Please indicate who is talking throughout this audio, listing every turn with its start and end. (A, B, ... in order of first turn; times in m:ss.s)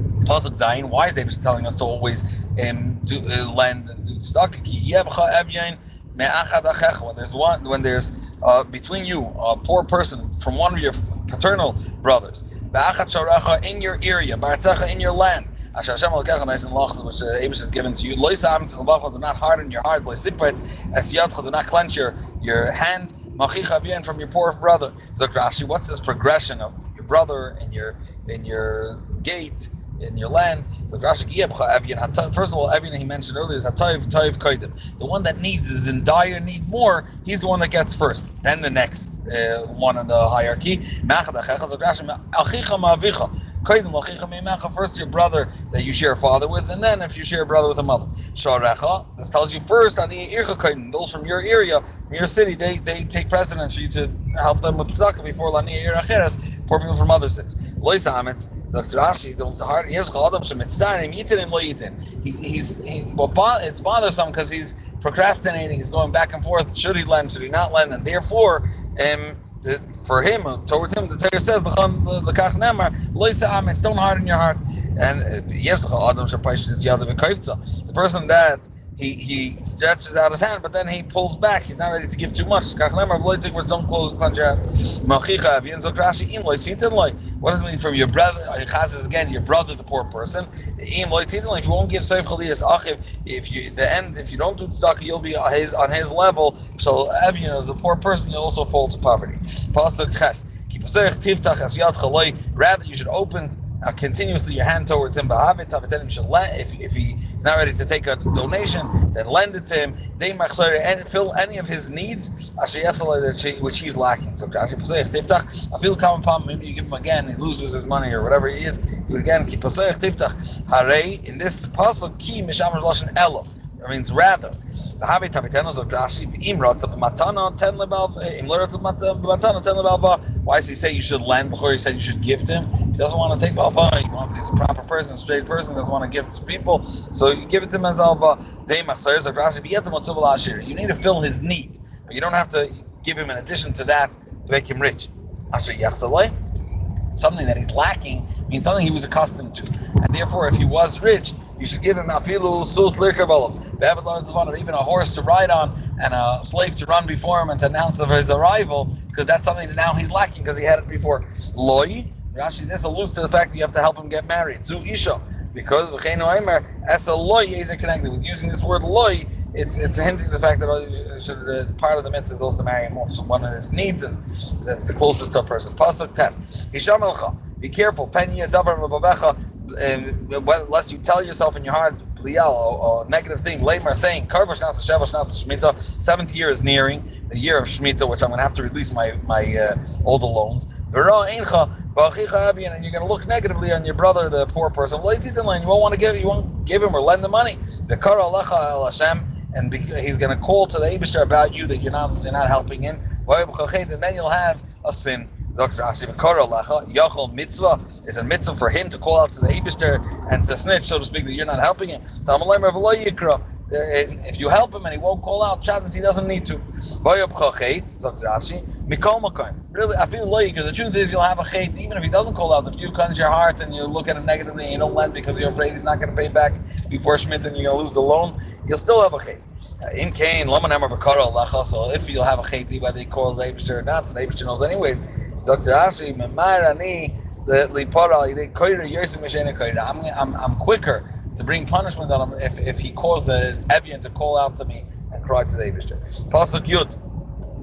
0:00.2-2:26.3 A
2:27.1-4:07.0 A